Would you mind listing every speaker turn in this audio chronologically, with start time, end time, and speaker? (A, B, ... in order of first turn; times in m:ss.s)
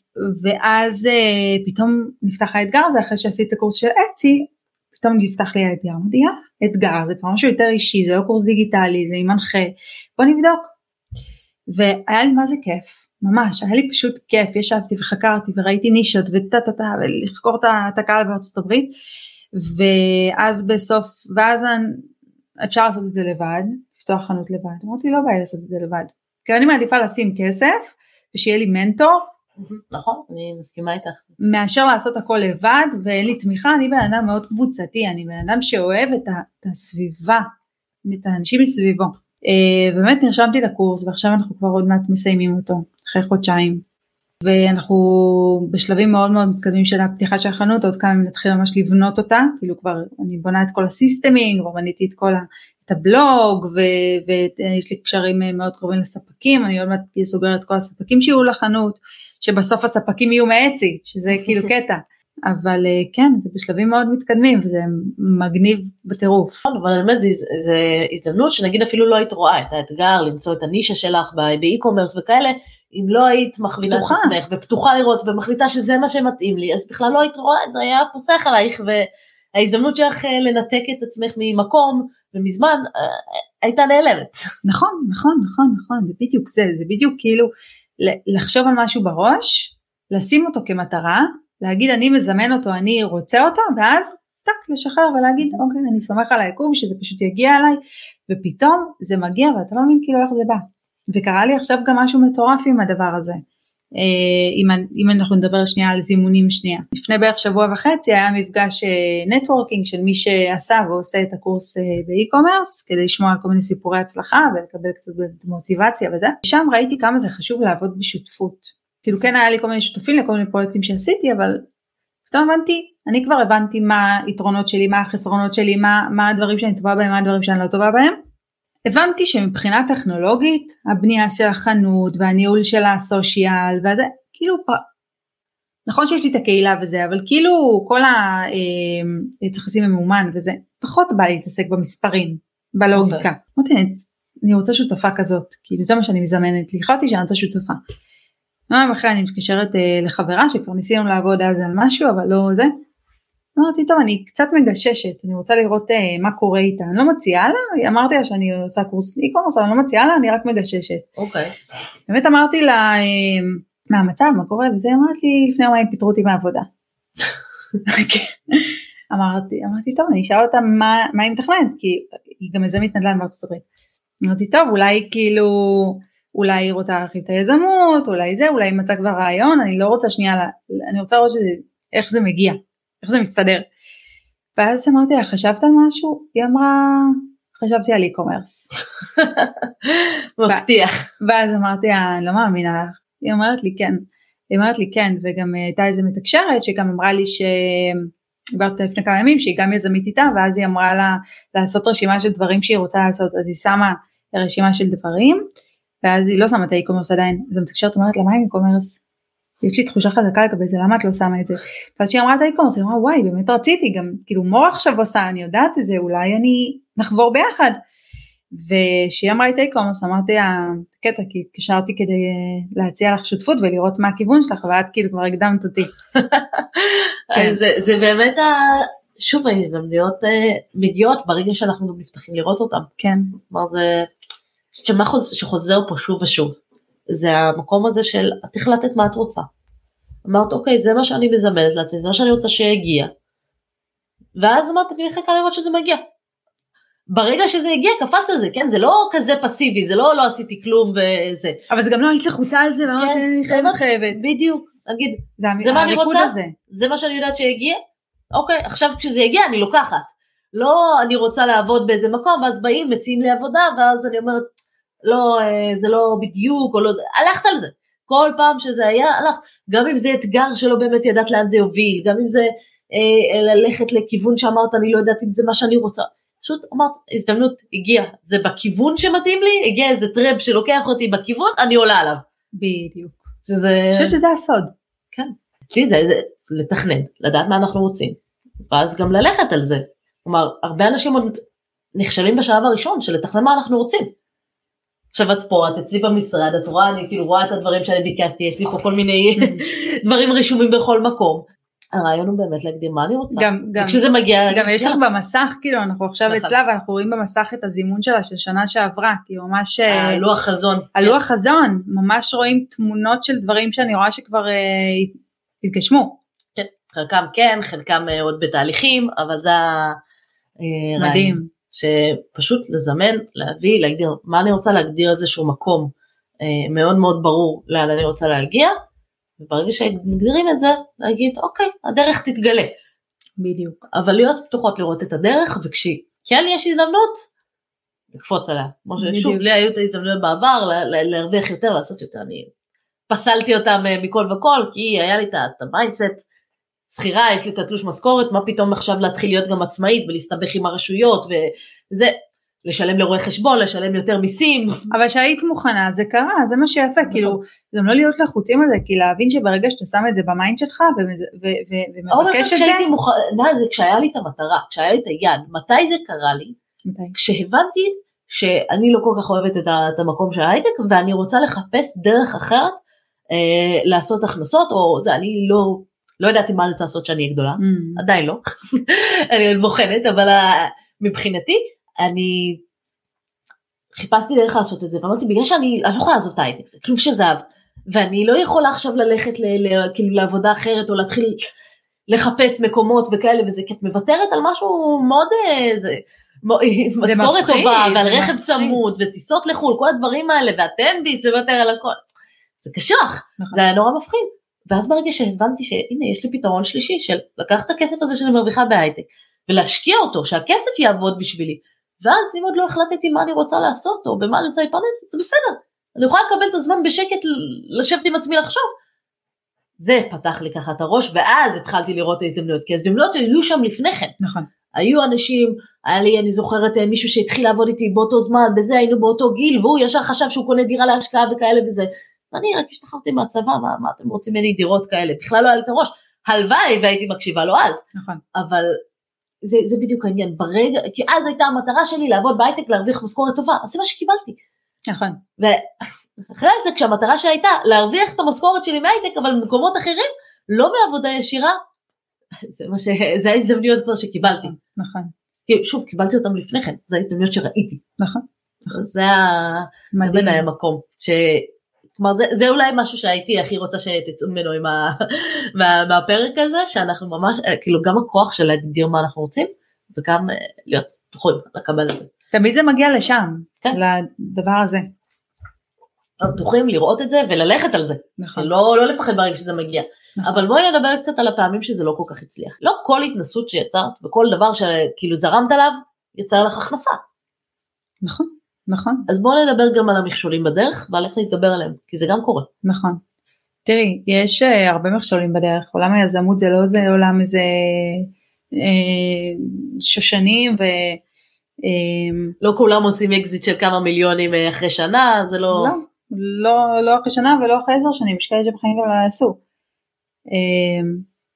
0:00.2-0:10.7 A
0:11.7-0:18.9 A
0:19.6-0:22.0 A
0:22.6-0:29.3 A
0:29.6-0:31.2 B
0:31.4-0:37.5 A
0:38.0-0:43.8 A
0:44.4-1:06.6 A
1:06.6-1:24.3 B
1:13.8-1:14.4 A
1:24.6-1:43.4 A
1:44.0-2:01.6 A
2:02.3-2:08.2 A
2:08.9-2:14.8 A
2:15.8-2:27.8 A
2:22.9-2:23.2 B
2:28.7-2:32.8 A
2:33.6-2:41.1 A
2:41.2-2:41.5 B
2:42.1-2:46.7 A
2:47.8-2:53.6 A
2:54.2-3:03.7 A
3:04.6-3:08.7 A
3:09.2-3:11.0 B
3:11.2-3:25.4 A
3:26.0-3:29.0 A
3:29.6-3:37.8 A
3:38.5-3:45.9 A
3:46.1-3:52.9 B
3:47.3-3:47.6 A
3:53.0-3:53.3 A
3:53.4-3:54.1 B
3:54.7-3:56.6 B
3:57.1-3:59.5 B
4:00.2-4:03.1 B
4:04.4-4:06.0 B
4:07.1-4:11.6 B
4:11.7-4:14.2 A
4:12.9-4:17.8 B
4:15.4-4:16.5 A
4:18.3-4:24.5 B
4:25.0-4:42.2 B
4:42.6-4:43.2 A
4:43.4-4:44.2 B
4:43.9-4:44.7 A
4:45.1-4:51.4 B
4:51.9-4:54.1 B
4:55.1-5:05.0 B
5:03.3-5:10.2 A
5:06.3-5:06.5 B
5:09.9-5:11.2 B
5:10.9-5:16.2 A
5:16.6-5:20.0 B
5:20.6-5:28.7 B
5:21.0-5:21.5 A
5:29.4-5:32.7 B
5:33.4-5:33.8 A
5:33.9-5:37.2 B
5:38.1-5:42.5 B
5:39.0-5:39.4 A
5:43.1-5:46.2 B
5:46.9-5:54.8 B
5:54.9-6:02.9 A
5:57.1-5:57.4 B
6:02.1-6:06.6 B
6:06.9-6:07.1 A
6:07.1-6:12.8 B
6:13.3-6:22.6 B
6:17.6-6:18.0 A
6:23.9-6:31.4 B
6:32.1-6:42.0 B
6:37.0-6:38.8 A
6:42.6-6:58.7 B
6:59.8-7:04.2 B
7:04.2-7:04.5 A
7:04.7-7:17.8 B
7:17.9-7:18.2 A
7:18.3-7:18.8 B
7:19.4-7:24.4 B
7:24.9-7:25.2 A
7:25.4-7:31.6 B
7:32.4-7:34.5 B
7:34.2-7:35.1 A
7:35.5-7:37.8 B
7:38.0-7:38.7 A
7:38.7-7:52.1 B
7:39.9-7:40.4 A
7:52.3-7:54.9 A
7:56.2-8:07.0 B
7:58.2-7:58.5 A
8:08.0-8:09.1 A
8:09.1-8:12.5 B
8:12.6-8:13.0 A
8:13.6-8:21.0 A
8:21.6-8:22.4 A
8:22.4-8:25.7 B
8:25.5-8:29.4 A
8:30.3-8:31.0 A